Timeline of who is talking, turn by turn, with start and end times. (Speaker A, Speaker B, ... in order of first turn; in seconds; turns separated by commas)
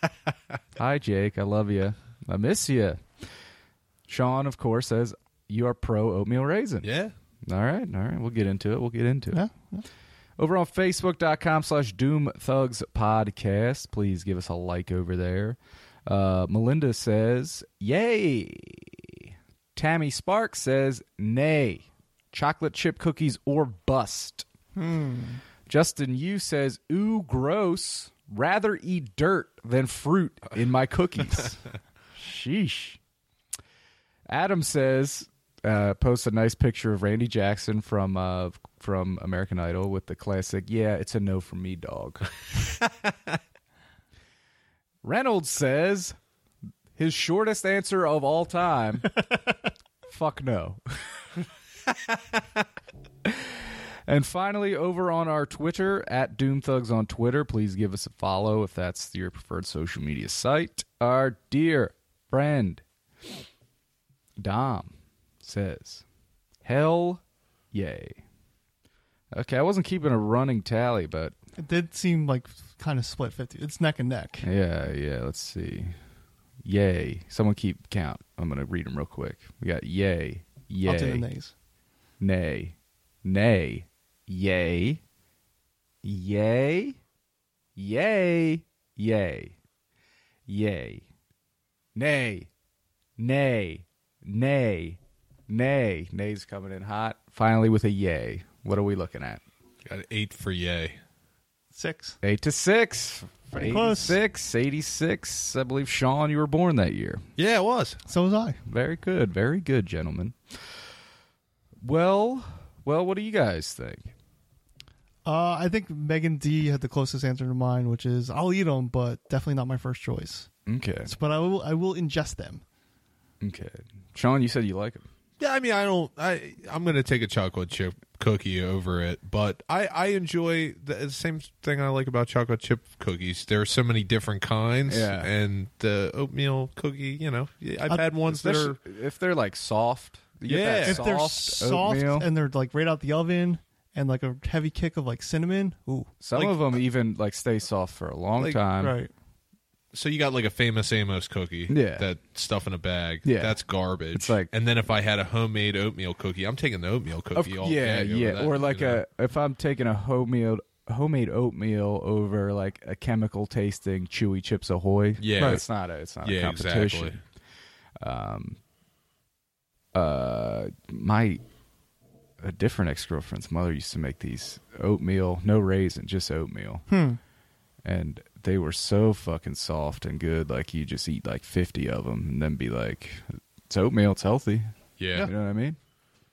Speaker A: 0.8-3.3, Speaker A: 4.1-6.9, Speaker B: 6.8-7.1, Speaker A: 7.5-9.4, Speaker C: 9.3-9.8, Speaker A: 10.4-24.5, Speaker C: 24.8-25.4, Speaker A: 25.7-31.6, Speaker A: 32.2-33.0, Speaker A: 34.3-42.3, Speaker A: 45.0-46.2, Speaker A: 47.0-49.4, Speaker A: 50.1-51.2, Speaker A: 53.2-62.8, Speaker A: 64.4-66.0, Speaker A: 66.6-67.2, Speaker A: 67.7-68.2, Speaker A: 69.3-71.4, Speaker C: 71.6-74.5, Speaker A: 74.4-76.0, Speaker A: 76.6-81.3, Speaker C: 80.8-81.5, Speaker A: 82.2-85.0, Speaker A: 86.0-87.0, Speaker A: 87.8-89.6, Speaker A: 90.5-91.1, Speaker A: 92.0-92.5, Speaker A: 93.2-99.4, Speaker B: 99.9-101.0, Speaker C: 101.7-102.2, Speaker A: 102.2-107.2, Speaker C: 103.5-104.2, Speaker B: 107.4-108.0, Speaker C: 108.1-108.6, Speaker A: 108.7-110.4, Speaker A: 111.8-114.1, Speaker C: 115.2-120.5, Speaker A: 120.7-121.1, Speaker C: 121.1-122.6, Speaker A: 123.4-125.0, Speaker B: 125.4-138.8, Speaker A: 134.9-135.3, Speaker A: 138.3-142.3, Speaker B: 140.5-141.0, Speaker C: 140.8-146.6, Speaker A: 146.2-149.0, Speaker C: 148.8-149.1, Speaker B: 149.9-159.0, Speaker A: 151.7-152.1, Speaker A: 153.2-153.6, Speaker A: 154.1-154.5, Speaker A: 157.3-167.2, Speaker B: 165.2-165.7, Speaker B: 166.2-167.2, Speaker A: 168.0-168.6, Speaker A: 169.9-171.4, Speaker A: 172.4-176.9, Speaker C: 176.9-177.2, Speaker A: 177.8-185.8, Speaker B: 185.0-185.3